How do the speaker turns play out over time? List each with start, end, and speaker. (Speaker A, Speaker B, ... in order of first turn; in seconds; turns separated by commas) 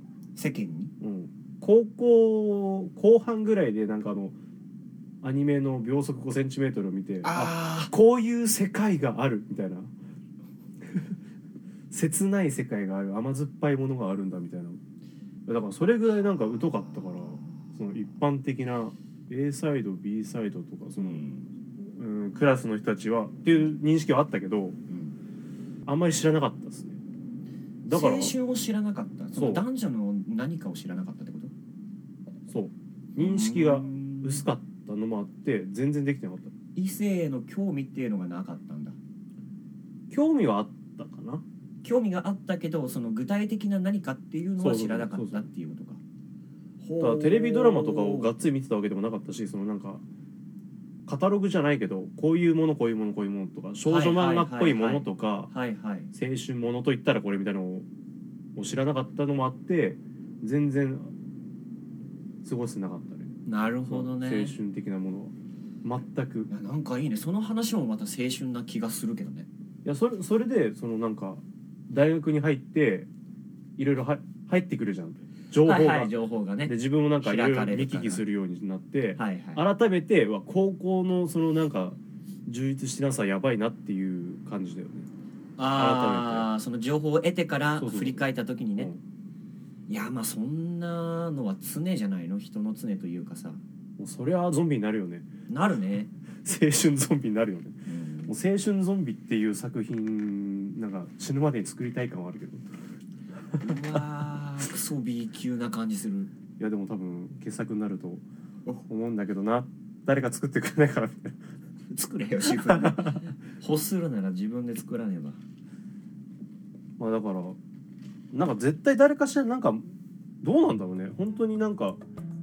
Speaker A: 0.4-0.9, Speaker B: 1.0-4.3, Speaker B: 5.2-9.9, Speaker A: 7.2-7.9, Speaker B: 11.9-14.8, Speaker B: 15.5-21.2, Speaker A: 16.3-18.1, Speaker A: 21.0-21.5, Speaker B: 21.8-24.8, Speaker A: 23.5-23.8, Speaker A: 24.9-25.2, Speaker B: 25.9-27.0, Speaker B: 27.9-28.4, Speaker A: 27.9-31.5, Speaker B: 29.4-29.6, Speaker B: 32.5-36.5, Speaker A: 33.2-34.5, Speaker A: 36.8-39.0, Speaker B: 40.1-41.4, Speaker A: 41.8-46.0, Speaker B: 44.6-45.5, Speaker A: 46.8-48.3, Speaker B: 47.0-50.0, Speaker B: 51.1-55.5, Speaker A: 53.9-56.1, Speaker B: 56.1-57.9, Speaker B: 58.6-61.1, Speaker B: 62.4-63.4, Speaker A: 63.5-64.5, Speaker B: 63.9-66.5, Speaker A: 66.5-69.5, Speaker B: 69.8-73.1, Speaker B: 73.8-76.1, Speaker A: 75.6-78.2, Speaker B: 76.7-85.1, Speaker A: 79.2-79.7, Speaker A: 85.6-88.9, Speaker B: 85.7-86.5, Speaker B: 87.8-88.2, Speaker A: 89.9-93.6, Speaker B: 94.0-95.3, Speaker A: 95.5-96.1, Speaker B: 96.5-102.7, Speaker A: 97.9-98.4, Speaker A: 103.6-106.3, Speaker B: 106.6-108.2, Speaker B: 108.9-111.4, Speaker A: 111.9-115.4, Speaker B: 112.7-113.1, Speaker B: 117.0-117.6, Speaker B: 118.3-119.9, Speaker B: 120.4-122.0